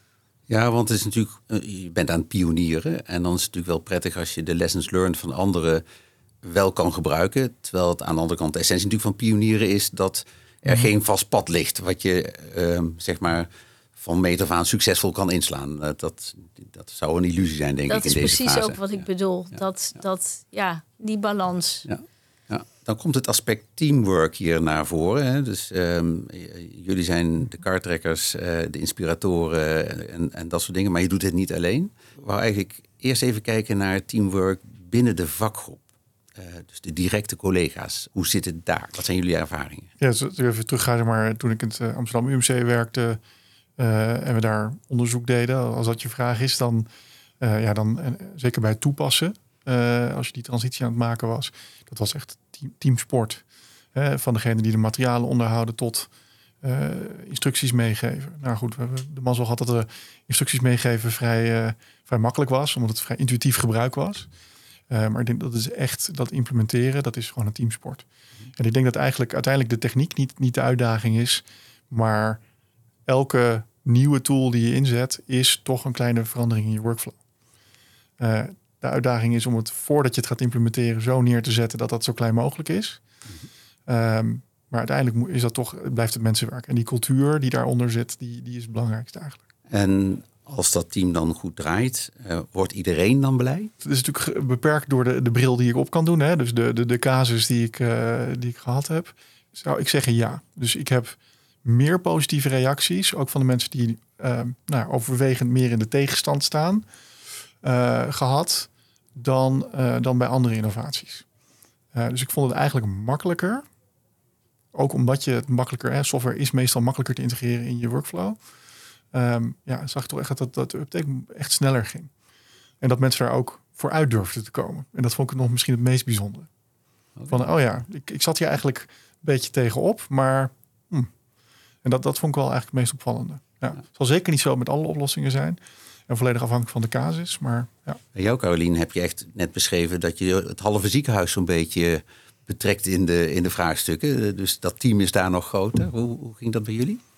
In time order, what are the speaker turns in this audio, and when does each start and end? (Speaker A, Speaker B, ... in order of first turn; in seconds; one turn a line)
Speaker A: 0.5-5.8
Speaker A: 6.4-19.0
Speaker B: 17.9-21.9
Speaker A: 21.9-35.8
Speaker A: 36.4-39.9
Speaker C: 40.0-43.2
Speaker C: 43.8-46.9
Speaker C: 47.4-53.4
Speaker C: 53.9-56.1
Speaker C: 56.6-64.3
Speaker C: 64.9-68.0
Speaker C: 68.5-72.4
Speaker C: 73.1-77.2
Speaker C: 78.2-83.0
Speaker C: 83.9-89.4
Speaker A: 89.7-93.7
Speaker C: 93.8-106.8
Speaker C: 107.6-111.2
Speaker C: 111.9-113.6
Speaker C: 114.7-118.4
Speaker C: 119.1-122.1
Speaker C: 122.8-126.5
Speaker A: 127.2-127.4
Speaker C: 127.3-131.1
Speaker C: 131.8-138.0
Speaker A: 138.1-147.0